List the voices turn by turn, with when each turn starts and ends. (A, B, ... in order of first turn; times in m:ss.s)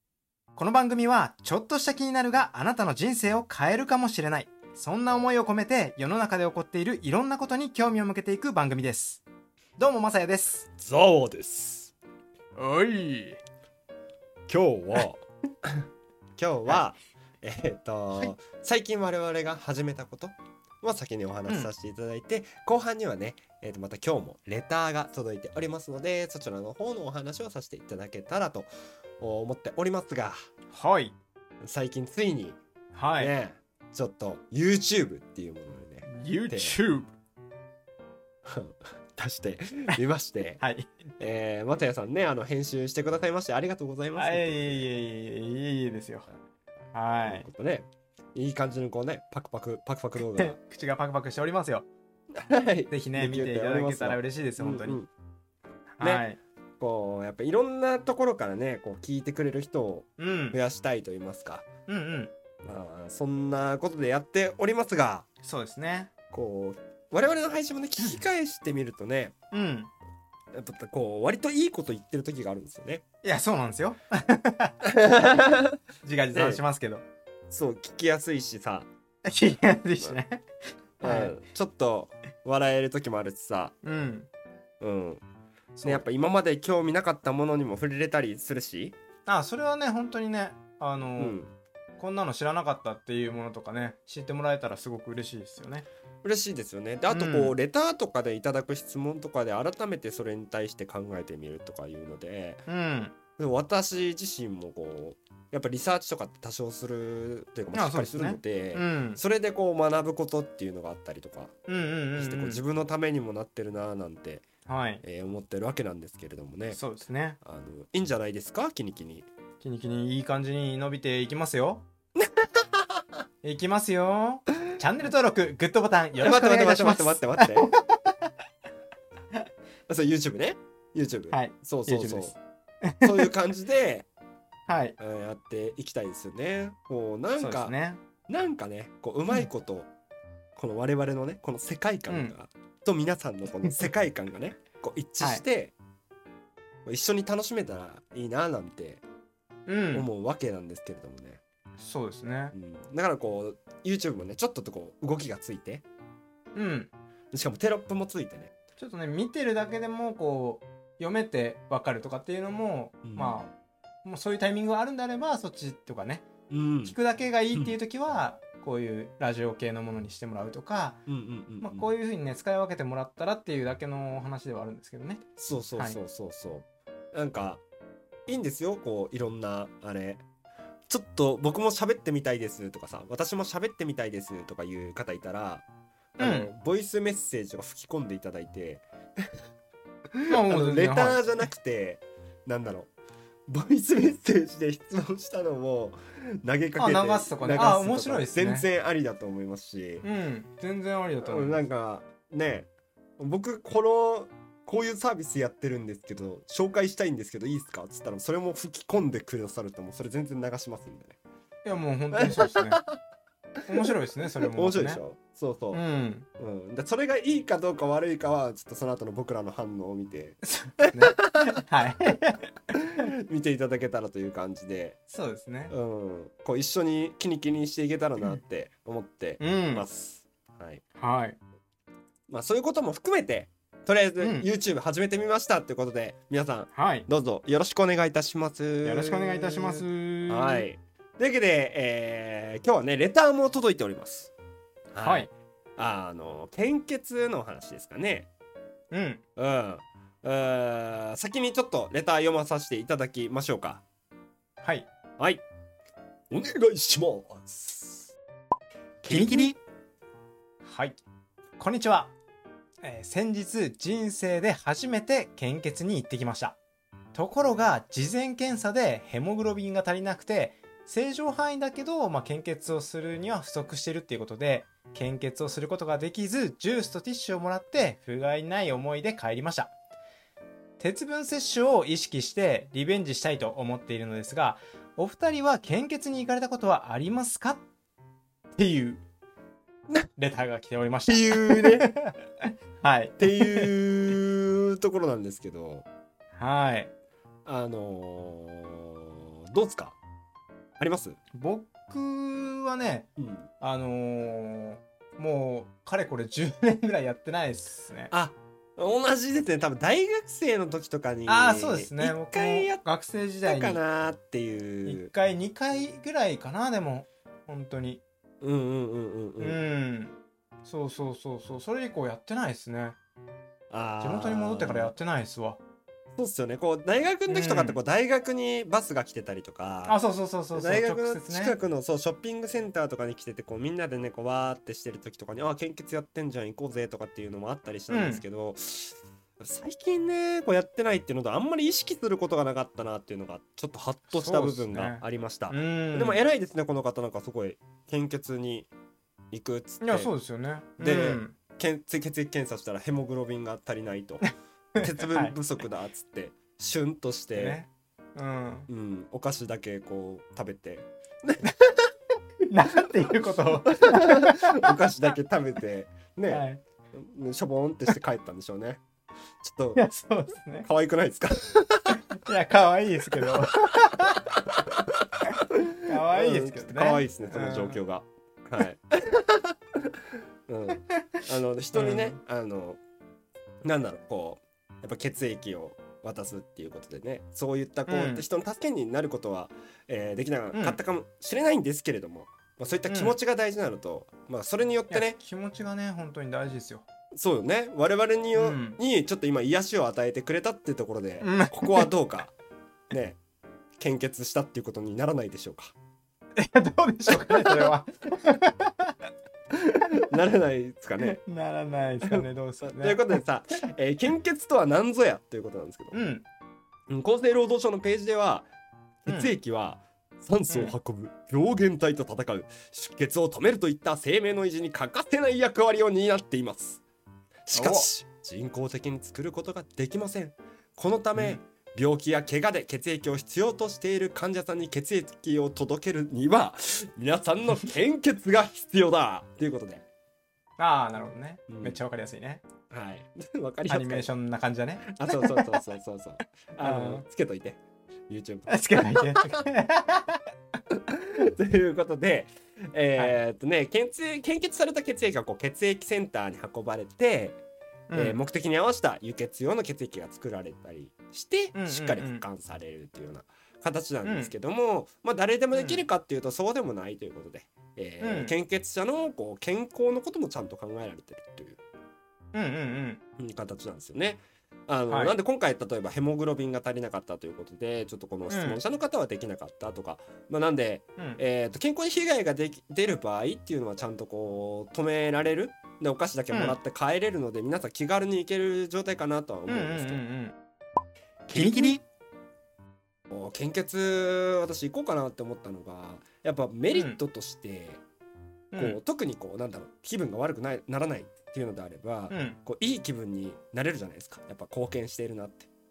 0:00.6-0:09.2 A
0:09.8-0:10.7 A
0:10.8-0:11.9 B
0:12.6-0:13.4 A
0:14.5-0:15.8 B
0:16.4-0:28.7 B
0:29.2-0:30.4 B
0:30.7-0:31.2 A
0:31.6-0:32.6 B
0:32.9-0:33.3 A
0:33.2-0:36.8 B
0:36.0-0:37.1 A
0:38.5-0:40.6 B
0:40.6-0:40.9 A
0:41.2-0:44.9 B
0:44.2-0:46.3 A
0:46.9-0:47.5 A
0:47.2-0:50.6 B
0:50.2-0:51.9 A
0:52.3-0:55.1 B
0:52.9-0:55.0 A
0:56.0-0:56.4 A
0:56.0-0:56.3 B
0:56.8-1:01.7 B
1:00.2-1:00.6 A
1:01.9-1:02.3 A
1:02.6-1:05.3 B
1:05.4-1:06.1 A
1:06.3-1:09.4 B
1:09.5-1:09.9 A
1:10.5-1:13.0 B
1:13.2-1:14.8 A
1:14.8-1:15.8 B
1:16.0-1:17.0 A
1:16.3-1:16.6 B
1:17.5-1:18.9 B
1:19.2-1:20.4 A
1:21.0-1:23.8 B
1:21.0-1:21.4 A
1:23.8-1:24.3 A
1:24.8-1:25.2 B
1:25.8-1:26.0 A
1:25.8-1:29.0 B
1:29.3-1:31.4 A
1:31.2-1:31.5 B
1:32.0-1:35.9 A
1:36.2-1:42.6 B
1:37.1-1:37.6 A
1:42.7-1:43.2 A
1:43.4-1:51.5 B
1:47.7-1:49.2 A
1:51.7-1:52.6 A
1:52.2-1:54.5 B
1:54.7-1:55.0 A
1:55.0-1:56.8 B
1:56.7-1:57.4 A
1:57.4-1:59.3 B
1:59.6-2:01.9 A
2:02.2-2:03.0 B
2:03.4-2:08.2 A
2:06.2-2:07.7 B
2:09.9-2:12.4 B
2:11.3-2:13.3 A
2:13.0-2:14.1 B
2:14.7-2:15.0 A
2:15.0-2:17.8 B
2:17.4-2:18.0 A
2:18.3-2:19.9 B
2:20.6-2:25.7 B
2:22.1-2:22.3 A
2:26.8-2:29.0 B
2:29.7-2:30.1 A
2:29.9-2:31.4 B
2:31.8-2:32.5 A
2:32.5-2:35.8 B
2:36.6-2:36.9 A
2:37.3-2:38.5 B
2:38.8-2:43.5 A
2:43.0-2:43.4 B
2:44.0-2:46.3 A
2:46.5-2:47.0 B
2:46.8-2:51.0 A
2:51.1-2:51.9 B
2:51.6-2:55.2 A
2:55.4-2:57.6 B
2:58.3-3:00.2 B
3:00.9-3:09.3 B
3:06.2-3:06.5 A
3:10.2-3:12.9 B
3:10.3-3:11.3 A
3:13.5-3:20.0 B
3:16.8-3:18.7 A
3:20.0-3:21.6 A
3:21.2-3:22.7 B
3:23.2-3:31.2 B
3:31.6-3:32.8 A
3:32.1-3:33.0 B
3:33.7-3:35.0 A
3:34.5-3:35.8 B
3:35.7-3:36.3 A
3:36.4-3:41.9 B
3:40.4-3:42.5 A
3:42.7-3:45.0 B
3:45.1-3:45.7 A
3:45.7-3:50.8 B
3:49.4-3:49.9 A
3:51.0-3:51.4 A
3:52.3-4:04.3 B
3:54.2-3:54.5 A
3:56.8-3:57.1 A
3:58.8-4:00.7 A
4:04.9-4:08.3 B
4:05.0-4:05.3 A
4:08.9-4:09.2 A
4:09.4-4:13.8 B
4:14.6-4:14.9 A
4:15.2-4:15.4 B
4:16.3-4:18.1 B
4:19.0-4:19.5 B
4:19.1-4:19.6 A
4:20.6-4:21.0 A
4:21.6-4:22.1 A
4:22.8-4:26.6 A
4:27.1-4:39.7 A
4:40.8-4:47.6 A
4:48.6-4:49.0 A
4:50.2-4:54.1 A
4:51.1-4:51.9 B
4:53.2-4:55.9 B
4:56.4-4:56.9 A
4:57.4-5:00.0 B
5:00.8-5:01.2 B
5:01.4-5:03.1 A
5:03.2-5:03.5 B
5:03.6-5:08.1 A
5:08.1-5:12.8 B
5:11.3-5:13.8 A
5:13.5-5:15.1 B
5:14.8-5:18.0 A
5:18.4-5:19.6 B
5:19.4-5:23.0 A
5:23.7-5:25.0 B
5:24.0-5:25.6 A
5:26.2-5:30.0 B
5:27.3-5:27.8 A
5:29.9-5:31.6 A
5:30.5-5:48.7 B
5:37.9-5:38.2 A
5:44.1-5:46.2 A
5:49.3-5:50.1 B
5:49.8-5:51.3 A
5:50.8-5:54.3 B
5:54.8-5:55.4 A
5:54.8-5:57.6 B
5:57.3-5:58.7 A
5:58.7-6:01.5 B
6:02.5-6:04.8 A
6:03.7-6:08.8 B
6:06.3-6:06.6 A
6:09.4-6:09.8 B
6:09.8-6:10.7 A
6:10.6-6:12.0 B
6:11.9-6:14.3 A
6:13.2-6:13.5 B
6:15.3-6:17.8 A
6:16.0-6:19.5 B
6:20.5-6:22.8 B
6:21.7-6:22.2 A
6:23.6-6:35.2 B
6:27.9-6:28.2 A
6:30.5-6:30.8 A
6:32.9-6:33.2 A
6:34.9-6:36.8 A
6:37.1-6:42.3 B
6:38.3-6:38.8 A
6:41.2-6:41.9 A
6:42.9-6:43.2 B
6:43.8-6:45.7 B
6:46.4-6:49.0 A
6:47.1-6:47.8 B
6:50.0-6:51.2 B
6:51.0-6:53.6 A
6:52.0-6:56.0 B
6:55.9-6:56.2 A
6:56.9-6:58.5 B
6:59.0-7:06.8 B
6:59.1-6:59.3 A
7:00.5-7:00.7 A
7:07.5-7:19.8 B
7:07.5-7:07.9 A
7:20.6-7:22.4 A
7:21.5-7:21.8 B
7:22.7-7:24.1 B
7:23.7-7:25.7 A
7:24.8-7:29.4 B
7:26.6-7:27.0 A
7:28.5-7:30.2 A
7:30.7-7:37.4 B
7:37.9-7:38.2 A
7:37.9-7:51.6 B
7:41.5-7:42.2 A
7:44.0-7:44.3 A
7:45.5-7:45.8 A
7:48.0-7:48.4 A
7:52.3-7:53.0 A
7:53.2-8:10.0 B
7:54.9-7:55.2 A
7:58.3-7:58.6 A
8:06.3-8:06.6 A
8:09.5-8:10.4 A
8:11.3-8:11.8 B
8:11.3-8:11.8 A
8:13.1-8:17.8 B
8:16.7-8:17.0 A
8:18.5-8:18.8 A
8:18.6-8:25.5 B
8:22.1-8:22.4 A